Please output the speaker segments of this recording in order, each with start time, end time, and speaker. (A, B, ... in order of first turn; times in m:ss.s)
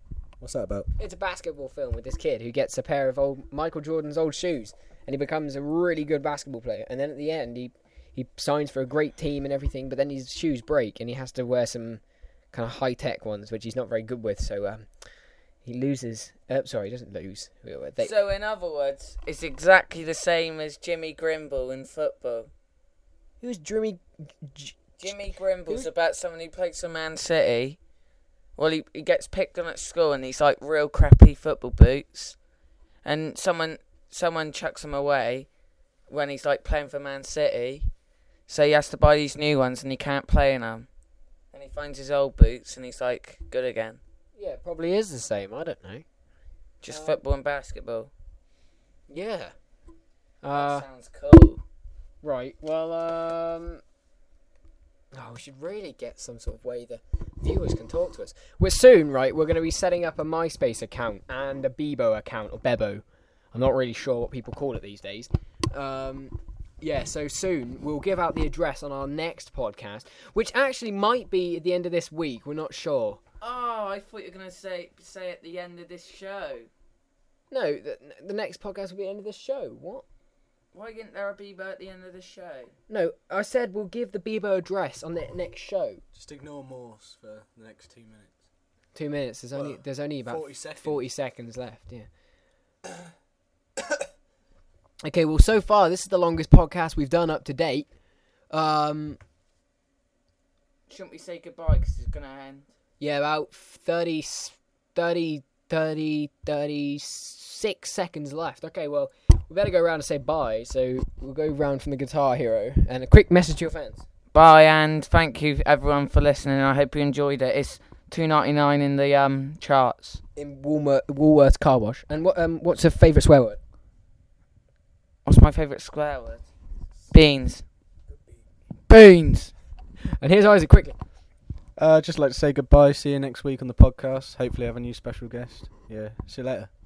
0:00.4-0:00.9 A
0:01.0-0:18.1 B
0:18.0-0:22.5 C
0:23.4-0:25.9 B
0:25.0-0:28.0 C
0:28.5-0:32.5 C
0:33.0-0:40.9 C
0:41.5-0:44.0 C
0:44.4-0:46.0 B
0:46.8-0:48.1 C
0:46.9-0:47.2 B
0:49.1-0:49.6 B
0:50.4-0:50.9 B
0:50.5-0:51.6 C
0:52.2-0:53.8 B
0:55.1-1:13.2 B
1:13.4-1:16.7 C
1:17.5-1:20.0 B
1:20.7-1:22.7 C
1:22.9-1:26.0 B
1:26.1-1:28.5 A
1:28.9-1:32.1 B
1:29.5-1:31.0 A
1:35.0-1:39.2 B
1:40.9-1:42.7 C
1:43.0-1:54.1 B
1:54.3-2:00.2 C
2:00.3-2:03.6 B
2:05.2-2:06.5 C
2:07.1-2:07.7 C
2:08.1-2:08.5 A
2:08.9-2:09.5 C
2:10.2-2:11.0 B
2:11.8-2:16.7 A